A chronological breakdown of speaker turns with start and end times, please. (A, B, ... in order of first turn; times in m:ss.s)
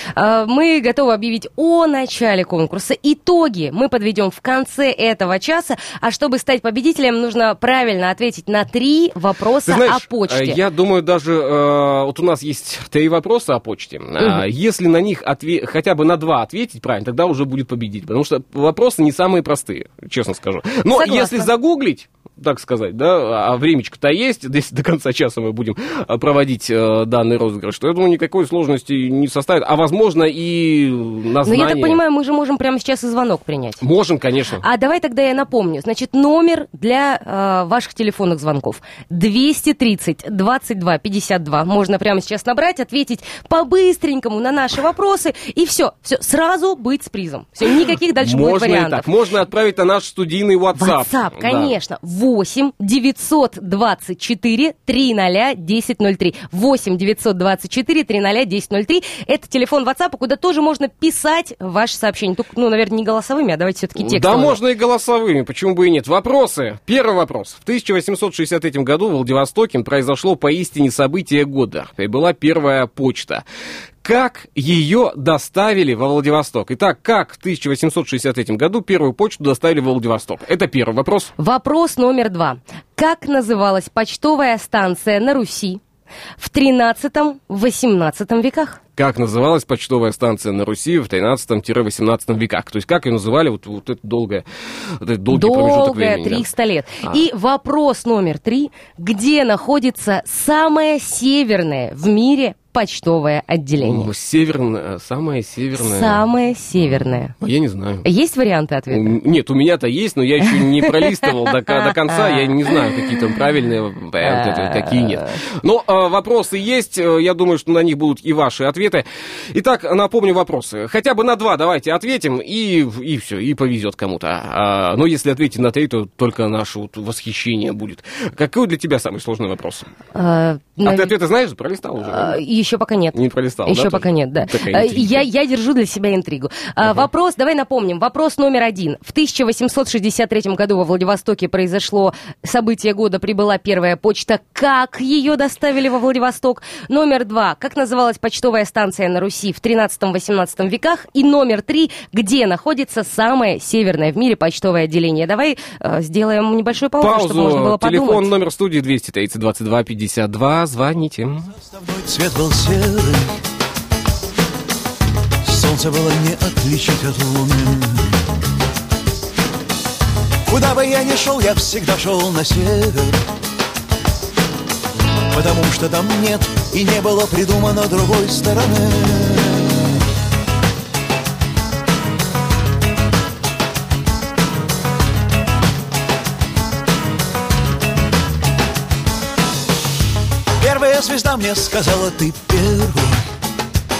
0:00.1-0:10.6 A
0:09.7-0:32.0 B
0:14.2-0:14.4 A
0:20.9-0:21.5 A
0:31.4-0:33.8 A
0:33.8-0:34.6 B
0:34.6-0:49.1 A
0:48.2-0:51.7 B
0:50.8-1:04.6 A
1:04.0-1:13.4 B
1:14.0-1:21.3 B
1:21.4-1:25.8 A
1:26.4-1:28.8 A
1:29.0-1:34.4 B
1:35.0-1:36.5 B
1:35.3-1:44.1 A
1:43.8-1:46.2 B
1:45.7-1:47.3 A
1:47.4-1:48.1 B
1:48.0-1:49.1 A
1:48.9-2:09.9 B
1:50.5-1:53.0 A
1:54.2-1:55.3 A
2:10.1-2:11.1 A
2:10.8-2:12.4 B
2:12.0-2:38.3 A
2:13.1-2:15.2 B
2:37.0-2:41.5 B
2:41.6-2:43.4 C
2:45.4-2:48.1 C
2:50.4-2:53.2 C
2:55.3-2:59.8 C
3:10.6-3:13.3 C